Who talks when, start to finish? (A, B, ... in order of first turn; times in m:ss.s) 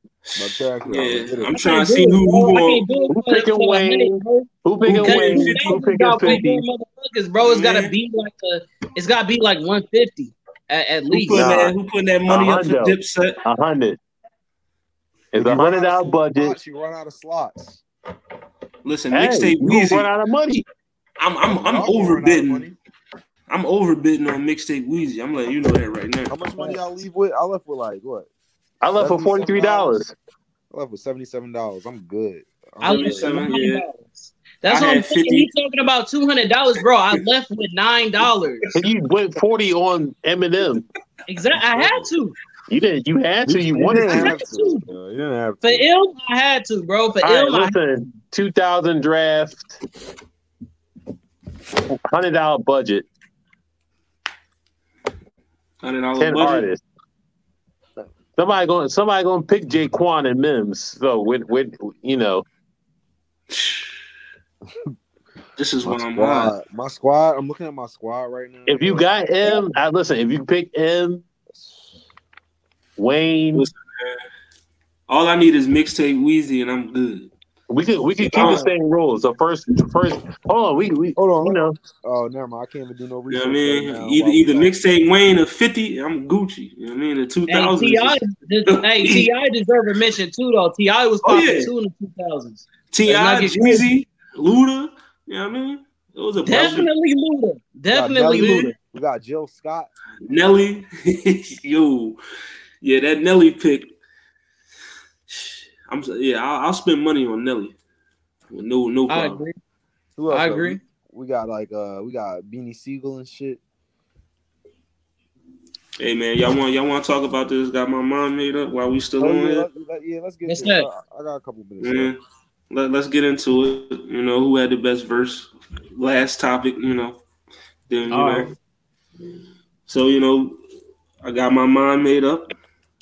0:00.2-0:02.9 A
0:00.4-0:01.6 B
0:01.5-0:11.5 C
0:03.1-0:06.6 D
0:04.8-0:06.4 A
0:07.4-0:07.9 A
0:11.1-0:13.4 A
0:11.3-0:11.7 D
0:12.3-0:14.0 D
0:15.3-0:16.5 D
0:15.3-0:17.8 B
0:18.8-0:20.1 A
0:19.1-0:20.6 D
0:21.2-0:22.7 A
0:21.5-0:22.7 B
0:23.5-0:26.3 A
0:26.3-0:28.3 B
0:28.8-0:30.1 D
0:29.0-0:30.0 B
0:30.7-0:33.5 B
0:32.8-0:38.7 C
0:32.8-0:33.9 A
0:34.6-0:35.5 A
0:38.7-0:40.8 D
0:41.3-0:42.4 C
0:41.5-0:42.1 B
0:42.7-0:44.4 D
0:43.4-0:45.8 B
0:43.7-0:44.8 C
0:45.6-0:48.1 C
0:47.2-0:49.7 D
0:51.9-0:53.1 D
0:55.8-0:56.7 A
0:56.2-0:56.8 D
0:58.4-1:02.4 D
1:03.5-1:04.0 A
1:05.6-1:06.5 A
1:05.8-1:09.6 B
1:08.7-1:11.2 D
1:11.5-1:11.8 B
1:13.0-1:13.7 D
1:13.5-1:14.2 A
1:15.1-1:17.3 A
1:17.7-1:21.8 D
1:18.3-1:18.7 B
1:18.3-1:18.7 A
1:21.2-1:24.8 B
1:23.3-1:29.3 A
1:27.5-1:33.9 C
1:31.2-1:31.7 A
1:32.9-1:36.9 A
1:36.4-1:38.7 C
1:37.9-1:40.4 B
1:38.3-1:38.7 A
1:40.2-1:42.2 A
1:42.8-1:43.9 A
1:45.3-1:47.8 A
1:48.5-1:49.4 A
1:49.1-1:49.6 C
1:50.2-1:53.6 B
1:50.3-1:50.8 C
1:56.0-1:59.7 A
1:59.2-2:02.1 B
2:00.4-2:00.9 C
2:01.8-2:02.2 A
2:02.7-2:07.2 A
2:07.9-2:08.5 A
2:08.1-2:08.5 C
2:09.9-2:10.6 A
2:11.2-2:12.5 A